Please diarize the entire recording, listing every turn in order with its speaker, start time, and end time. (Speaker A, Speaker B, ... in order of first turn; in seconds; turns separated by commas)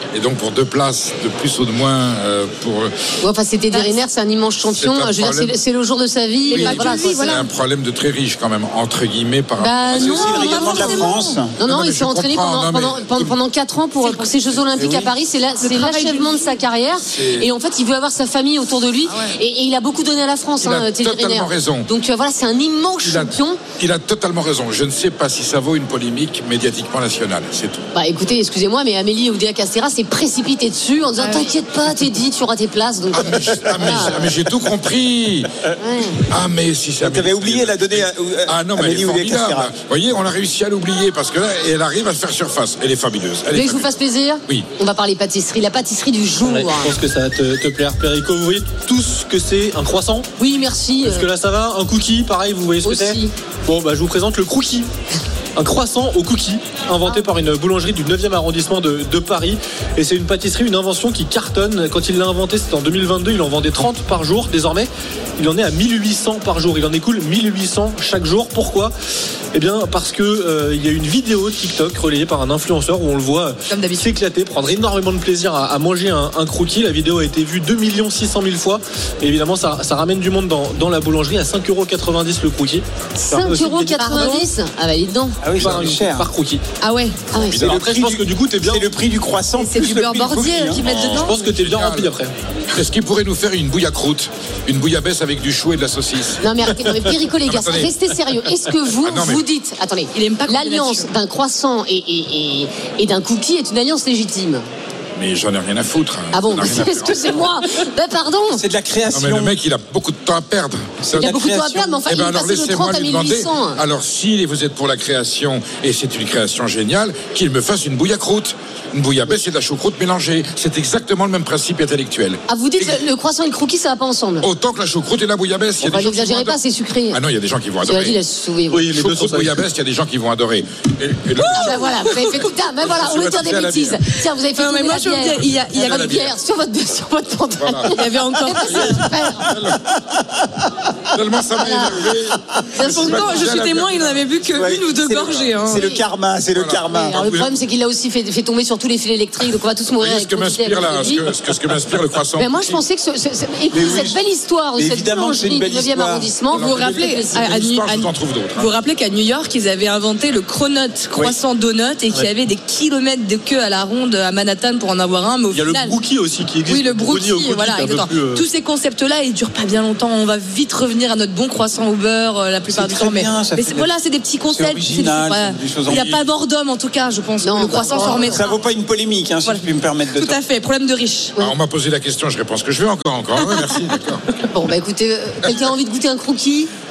Speaker A: 0.1-2.9, Speaker B: 3.2-7.4, Speaker C: 3.7-4.0, Speaker A: 4.8-5.6, Speaker C: 6.5-7.5, Speaker A: 6.5-10.3, Speaker B: 9.6-23.6, Speaker D: 9.9-11.5, Speaker C: 10.1-11.4, Speaker A: 11.6-13.3, Speaker C: 14.0-14.3, Speaker D: 14.8-15.1, Speaker C: 15.6-16.6, Speaker A: 17.1-17.5, Speaker C: 19.1-19.4, Speaker A: 20.6-21.9, Speaker A: 23.0-27.8, Speaker B: 27.9-34.2, Speaker C: 31.2-31.5, Speaker A: 33.1-35.5, Speaker B: 35.8-36.2, Speaker A: 36.3-43.9, Speaker D: 37.0-39.7, Speaker B: 43.5-46.9, Speaker E: 46.4-50.3, Speaker B: 50.4-51.3, Speaker E: 51.0-54.9, Speaker B: 52.8-53.3, Speaker E: 55.6-68.9, Speaker E: 69.5-84.1, Speaker C: 73.7-74.1, Speaker B: 83.2-85.4, Speaker C: 84.0-84.5, Speaker D: 85.4-86.3, Speaker E: 85.6-86.6, Speaker A: 85.6-85.9, Speaker C: 86.8-87.3, Speaker B: 87.3-87.6, Speaker D: 87.5-90.8, Speaker E: 87.5-88.9, Speaker C: 89.6-91.3, Speaker A: 90.8-92.1, Speaker E: 91.1-92.3, Speaker A: 92.7-96.7, Speaker B: 96.4-104.6, Speaker A: 97.5-97.9, Speaker A: 99.0-99.4, Speaker C: 100.1-101.1, Speaker A: 105.2-107.4, Speaker B: 106.3-108.6, Speaker D: 108.5-109.5, Speaker A: 109.1-111.4, Speaker D: 111.1-112.0, Speaker B: 111.2-113.8, Speaker A: 112.0-123.0, Speaker B: 122.5-124.5, Speaker A: 124.4-126.6, Speaker B: 125.8-127.2, Speaker A: 127.1-128.2, Speaker B: 127.8-128.8, Speaker E: 128.7-129.6, Speaker A: 129.0-134.0, Speaker B: 131.4-139.5, Speaker C: 131.5-132.4, Speaker C: 134.5-135.9, Speaker A: 135.7-136.3, Speaker A: 137.6-139.8, Speaker C: 137.9-139.1, Speaker A: 141.1-144.4, Speaker B: 141.6-142.1, Speaker B: 142.7-143.4, Speaker C: 142.8-146.0, Speaker D: 143.0-143.3, Speaker D: 144.5-147.4, Speaker A: 146.5-147.5, Speaker B: 146.9-151.3, Speaker A: 150.0-152.8, Speaker B: 152.4-157.5, Speaker D: 153.7-154.2, Speaker D: 154.8-156.3, Speaker A: 156.5-158.7, Speaker C: 156.6-166.0, Speaker E: 165.5-168.5, Speaker C: 166.7-178.6, Speaker D: 172.7-173.9, Speaker D: 174.5-176.1, Speaker A: 175.9-176.2, Speaker B: 177.4-178.4, Speaker D: 177.8-180.4, Speaker C: 179.5-181.3, Speaker A: 181.4-184.2, Speaker C: 183.4-183.9, Speaker B: 184.5-186.7